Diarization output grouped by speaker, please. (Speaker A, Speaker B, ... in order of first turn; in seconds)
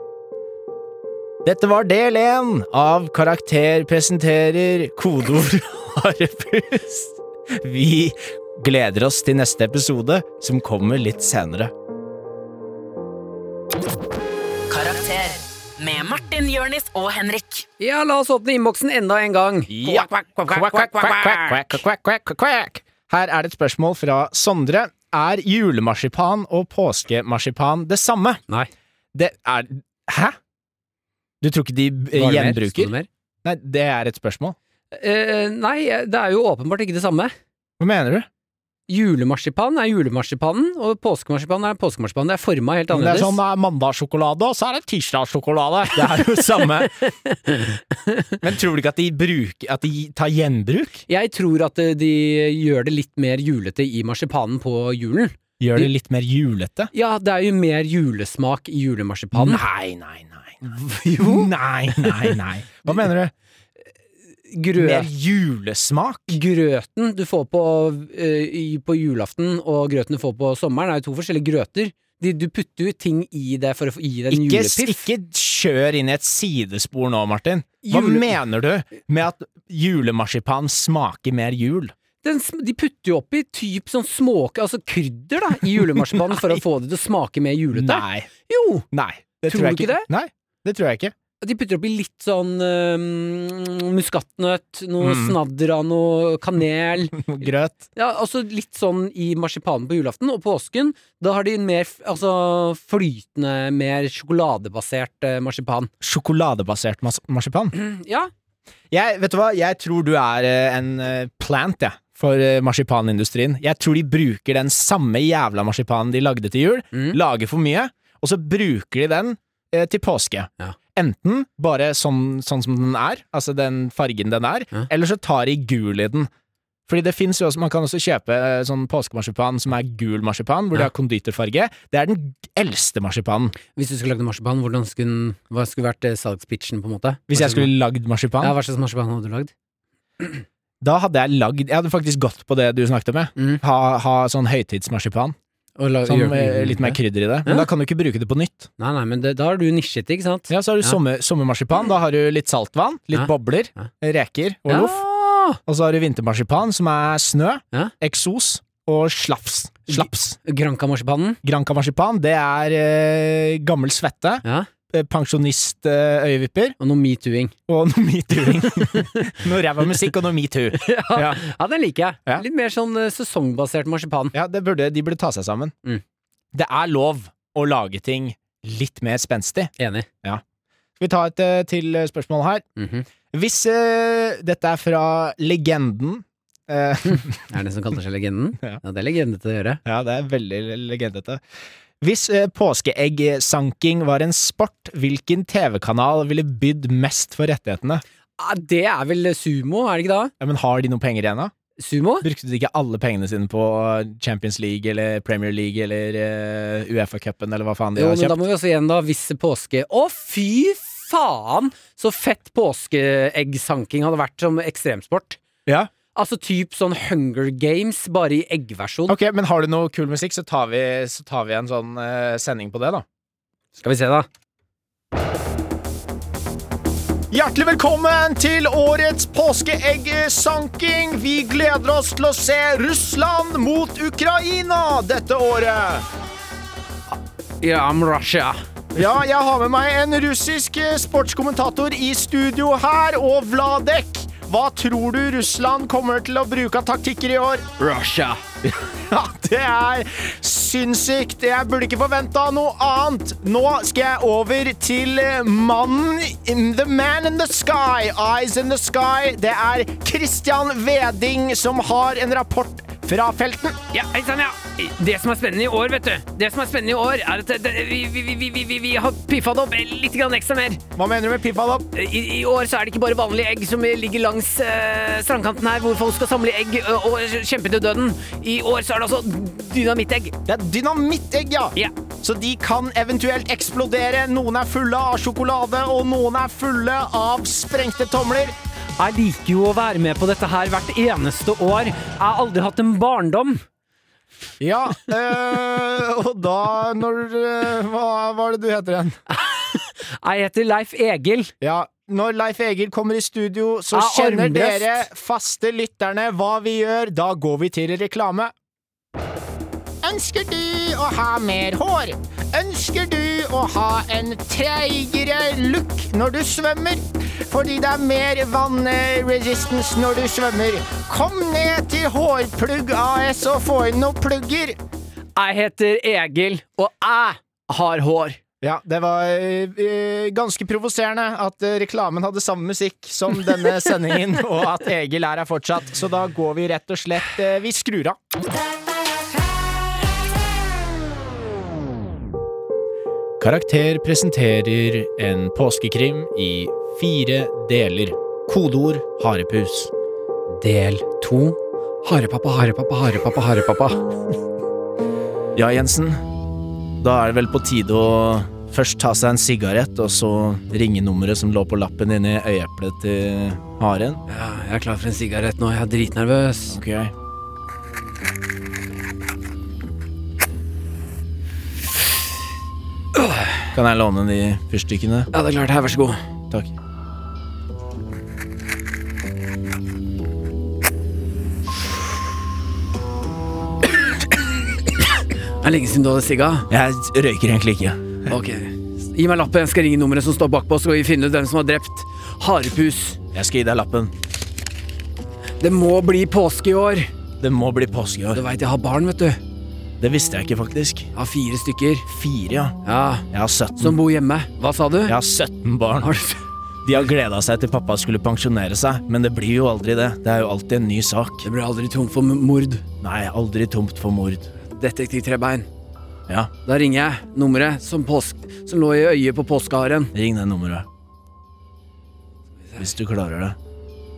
Speaker A: 1.4-11.7, 19.7-28.4, 29.1-30.4, 31.4-34.6, 37.8-38.3, 42.9-47.0, 48.4-51.0, 55.6-56.9, 59.3-63.3, 64.8-66.4, 74.3-81.9, 85.8-86.6, 87.7-88.3, 88.9-91.1, 95.0-95.4, 97.1-97.9, 106.0-107.8, 108.9-126.3, 126.9-133.6, 137.3-138.6, 140.8-145.4, 146.1-148.7, 150.5-155.0, 155.7-160.4, 161.4-166.8, 167.7-171.4, 174.3-175.7, 176.5-179.7, 181.0-182.7, 183.3-187.4, 189.8-191.4, 192.0-198.0, 200.4-201.5, 202.2-208.4, 215.7-215.9, 219.1-223.1, 227.3-236.1, 238.9-247.7, 248.6-263.8, 270.9-271.9, 280.5-288.6, 294.6-299.2, 301.6-308.5, 310.0-324.8, 328.6-338.2, 343.4-349.9, 355.6-356.2, 357.0-364.2, 366.7-367.1, 373.7-375.3, 386.7-388.3, 393.3-394.1, 397.4-398.4, 400.0-401.1, 402.1-402.8, 403.3-404.0, 405.1-406.2, 406.9-411.5, 413.0-414.5, 420.1-420.9, 422.8-423.6
Speaker B: 14.7-17.7
Speaker C: 17.8-21.8, 32.1-33.1, 34.9-37.3, 38.9-43.4, 46.8-48.3, 51.1-55.9, 56.9-59.6, 60.7-61.5, 62.0-62.3, 64.5-65.1, 66.3-75.1, 77.8-78.4, 82.2-88.8, 89.5-90.1, 91.4-97.3, 98.0-105.9, 107.7-108.3, 116.9-117.2, 133.8-137.7, 138.4-139.5, 143.4-143.6, 145.8-147.7, 148.8-151.0, 153.1-153.9, 154.7-155.6, 159.9-161.4, 164.4-164.7, 166.8-167.5, 168.6-169.3, 170.8-174.3, 179.8-180.1, 182.8-183.1, 187.1-189.8, 198.4-200.3, 201.8-202.3, 208.0-215.4, 216.2-219.2, 223.8-224.3, 237.6-238.6, 247.8-248.4, 263.9-270.8, 271.9-280.4, 289.0-293.6, 299.3-301.5, 303.9-305.1, 325.4-328.4, 350.5-354.0, 364.3-366.8, 373.1-373.6, 375.3-376.2, 385.2-386.7, 388.3-393.2, 395.6-397.1, 398.3-399.4, 401.1-402.1, 402.9-403.3, 403.8-405.2, 406.0-406.4, 411.4-412.8, 414.7-415.7, 416.6-420.1